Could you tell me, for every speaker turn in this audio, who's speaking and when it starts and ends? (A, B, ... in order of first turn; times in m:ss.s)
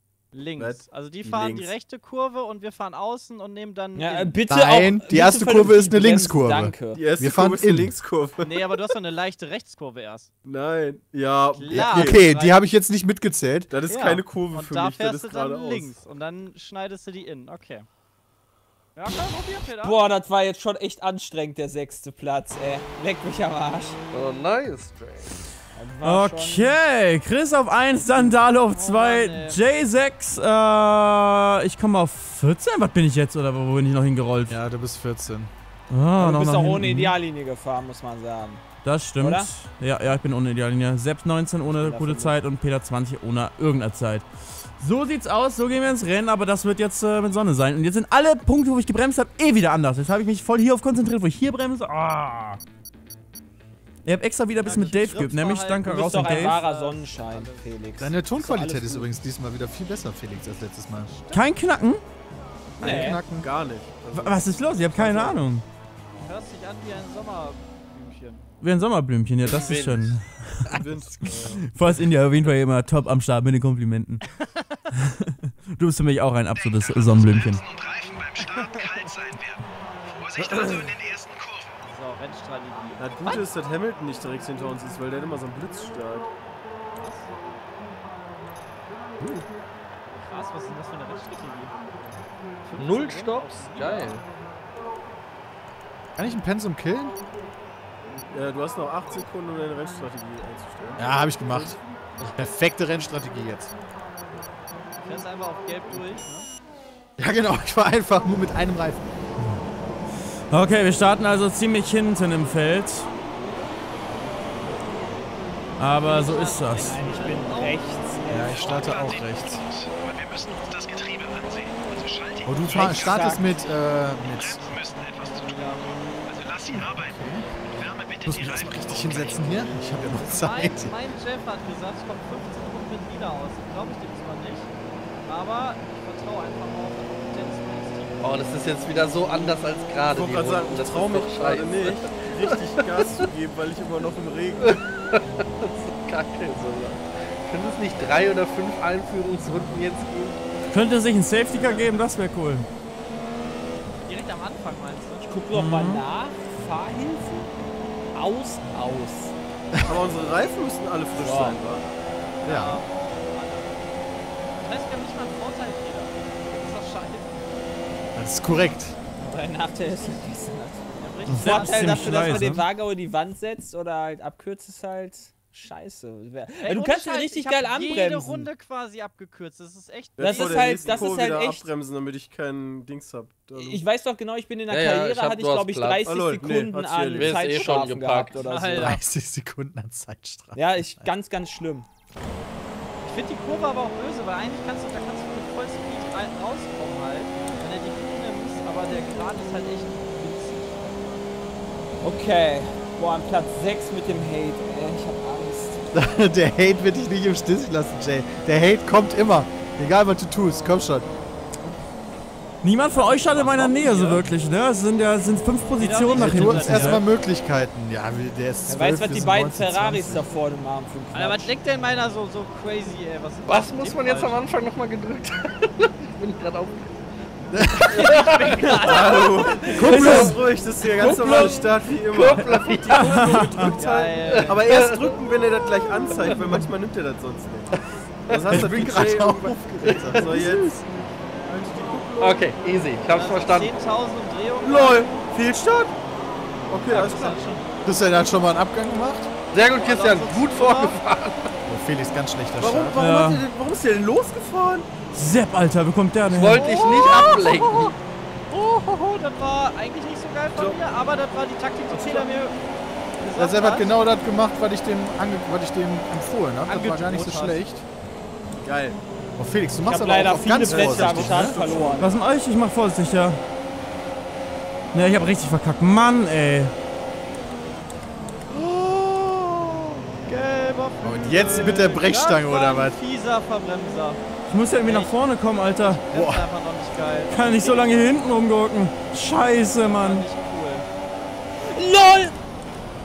0:00.3-0:04.5 A
0:00.6-0:01.7 B
0:03.9-0:07.0 C
0:04.5-0:07.9 D
0:06.9-0:08.6 B
0:08.4-0:10.3 A
0:10.4-0:12.2 B
0:11.5-0:12.6 A
0:11.7-0:13.7 D
0:13.7-0:15.9 B
0:13.8-0:17.9 A
0:19.0-0:20.0 A
0:19.8-0:24.0 C
0:24.1-0:25.4 E
0:25.8-0:26.8 C
0:26.0-0:34.6 F
0:28.6-0:29.6 A
0:34.5-0:35.5 D
0:35.9-0:37.2 F
0:36.2-0:38.6 C
0:38.8-0:44.2 F
0:39.2-0:39.5 C
0:41.7-0:42.4 C
0:44.8-0:52.6 F
0:54.0-0:56.6 F
0:54.5-0:57.7 A
0:55.8-0:59.1 C
0:58.0-1:01.1 D
1:01.0-1:01.6 A
1:01.3-1:02.0 F
1:02.8-1:03.5 D
1:02.8-1:03.2 C
1:02.8-1:05.5 B
1:04.1-1:05.6 F
1:06.2-1:08.4 A
1:08.6-1:14.2 F
1:09.4-1:10.2 E
1:10.7-1:11.8 B
1:15.0-1:17.6 F
1:16.6-1:21.8 G
1:18.4-1:18.8 A
1:20.4-1:20.9 B
1:21.8-1:23.5 A
1:23.0-1:26.3 B
1:27.0-1:27.3 A
1:30.1-1:31.7 A
1:32.6-1:34.2 A
1:32.8-1:34.2 E
1:36.2-1:37.1 D
1:38.3-1:41.8 B
1:41.0-1:41.8 D
1:42.3-1:43.7 D
1:45.0-1:46.5 A
1:47.2-1:49.1 D
1:50.5-1:53.1 F
1:55.8-1:57.1 F
1:56.0-1:59.2 A
1:56.8-1:58.7 C
1:58.3-1:59.6 D
1:58.6-2:03.6 G
2:02.4-2:04.7 D
2:02.7-2:03.7 C
2:04.2-2:09.7 G
2:05.1-2:05.9 A
2:06.8-2:07.4 D
2:08.2-2:10.9 D
2:10.0-2:14.7 A
2:15.2-2:18.5 A
2:18.2-2:23.2 E
2:20.0-2:24.8 B
2:24.6-2:30.4 E
2:30.7-2:32.7 F
2:31.5-2:32.0 A
2:34.0-2:35.2 A
2:35.2-2:37.5 C
2:35.5-2:36.0 F
2:38.1-2:39.3 C
2:39.7-2:40.0 D
2:39.8-2:41.8 B
2:41.1-2:41.6 C
2:42.4-2:43.9 A
2:42.4-2:42.8 D
2:44.6-2:47.3 A
2:48.1-2:49.0 D
2:49.2-2:58.5 C
2:49.8-2:50.1 A
2:51.0-2:52.5 A
2:51.3-2:52.6 F
2:56.6-3:01.2 A
3:00.2-3:03.8 B
3:00.2-3:01.7 C
3:03.6-3:09.0 C
3:04.7-3:06.0 E
3:06.0-3:07.4 B
3:07.1-3:08.4 E
3:08.4-3:09.0 A
3:08.7-3:11.1 D
3:10.5-3:11.9 C
3:13.0-3:20.9 A
3:22.0-3:25.8 C
3:25.9-3:31.1 D
3:32.6-3:37.0 F
3:32.9-3:34.2 A
3:35.8-3:37.0 A
3:36.1-3:40.3 D
3:38.7-3:41.5 C
3:41.1-3:44.5 A
3:43.5-3:47.0 E
3:47.5-3:48.0 D
3:47.8-3:56.6 E
3:47.9-3:50.0 A
3:48.8-4:02.6 B
3:49.9-3:50.3 D
3:49.9-3:50.4 F
3:51.0-3:51.6 F
3:52.9-3:53.7 F
3:53.7-3:54.6 A
3:58.3-3:59.2 E
3:58.5-4:00.6 D
3:59.8-4:00.4 E
4:02.2-4:03.8 E
4:03.1-4:05.2 A
4:04.6-4:05.9 B
4:06.7-4:07.4 B
4:06.8-4:07.6 A
4:07.8-4:09.3 D
4:09.5-4:11.4 E
4:09.7-4:11.0 A
4:11.7-4:13.0 D
4:12.6-4:14.9 B
4:13.0-4:13.4 F
4:15.1-4:16.7 F
4:16.3-4:18.0 E
4:16.4-4:18.0 A
4:18.5-4:22.6 A
4:20.5-4:20.8 B
4:21.9-4:22.3 B
4:23.2-4:24.0 A
4:23.4-4:27.8 D
4:26.6-4:27.6 A
4:28.5-4:29.0 B
4:29.4-4:31.6 D
4:29.8-4:32.2 C
4:30.6-4:32.2 B
4:32.0-4:33.4 F
4:34.9-4:36.7 F
4:40.2-4:44.2 A
4:41.0-4:43.0 D
4:44.5-4:46.0 F
4:44.8-4:45.2 A
4:45.7-4:48.0 A
4:46.1-4:46.5 D
4:47.3-4:50.2 F
4:49.8-4:50.9 A
4:51.7-4:52.3 C